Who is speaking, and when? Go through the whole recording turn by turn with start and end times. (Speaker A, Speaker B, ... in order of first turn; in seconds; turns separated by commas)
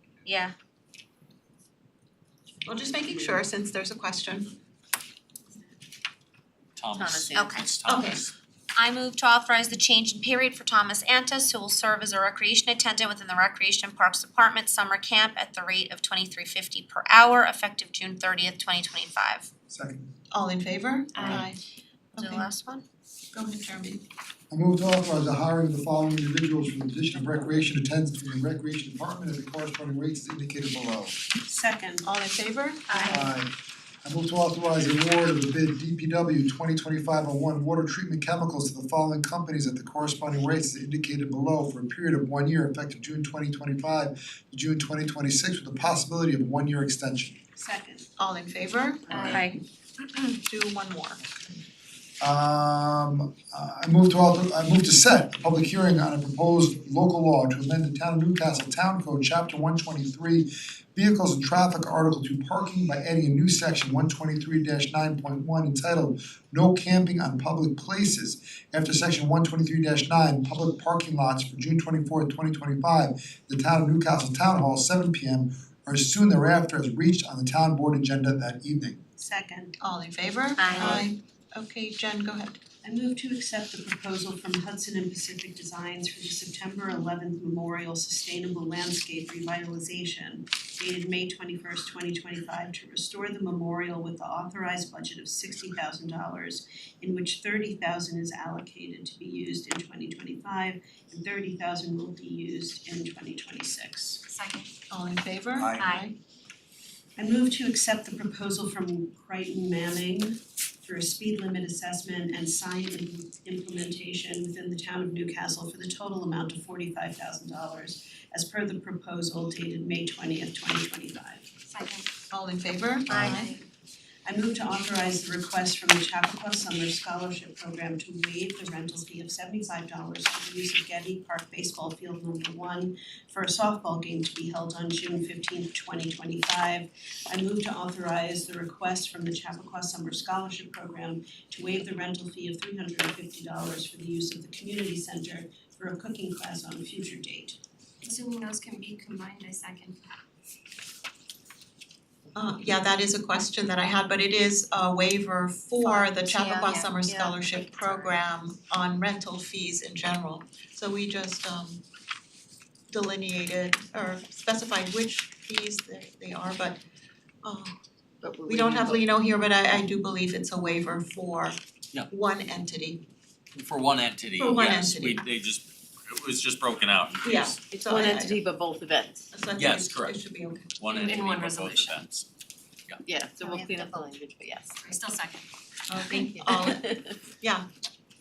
Speaker A: 0.2-0.5, Speaker B: 2.6-4.5, Speaker C: 6.8-8.3, Speaker D: 6.9-7.6, Speaker A: 7.3-7.7, Speaker B: 7.8-8.2, Speaker A: 8.8-19.5, Speaker E: 19.7-20.1, Speaker B: 20.3-21.6, Speaker B: 22.2-22.5, Speaker A: 22.2-22.9, Speaker B: 23.3-24.0, Speaker E: 24.5-31.2, Speaker F: 31.4-32.1, Speaker B: 32.0-33.2, Speaker F: 32.9-33.3, Speaker E: 33.1-33.5, Speaker E: 34.0-47.4, Speaker F: 47.5-48.1, Speaker B: 48.2-49.4, Speaker G: 49.1-49.6, Speaker B: 50.0-51.3, Speaker E: 52.2-79.0, Speaker F: 79.2-79.7, Speaker B: 79.8-82.6, Speaker A: 80.6-80.9, Speaker F: 80.7-81.1, Speaker F: 82.8-104.2, Speaker G: 104.3-104.7, Speaker B: 104.9-106.1, Speaker E: 105.6-105.9, Speaker G: 105.8-106.1, Speaker F: 107.2-121.5, Speaker G: 121.7-122.1, Speaker B: 122.3-123.6, Speaker G: 123.1-123.6, Speaker F: 124.3-147.6, Speaker G: 148.0-150.1, Speaker B: 152.3-161.8, Speaker A: 155.8-158.2, Speaker B: 162.9-166.8, Speaker B: 167.4-167.8, Speaker D: 168.2-169.1, Speaker B: 168.5-171.6, Speaker B: 172.1-173.0, Speaker C: 173.5-177.6, Speaker B: 174.4-175.2, Speaker B: 177.2-178.4, Speaker D: 177.7-179.3, Speaker B: 179.3-180.7, Speaker C: 179.6-180.2, Speaker C: 180.8-182.3, Speaker G: 180.9-182.1, Speaker D: 183.1-184.8, Speaker A: 183.4-184.1, Speaker G: 184.8-185.4, Speaker B: 185.9-186.9, Speaker D: 186.0-187.1, Speaker B: 187.4-187.7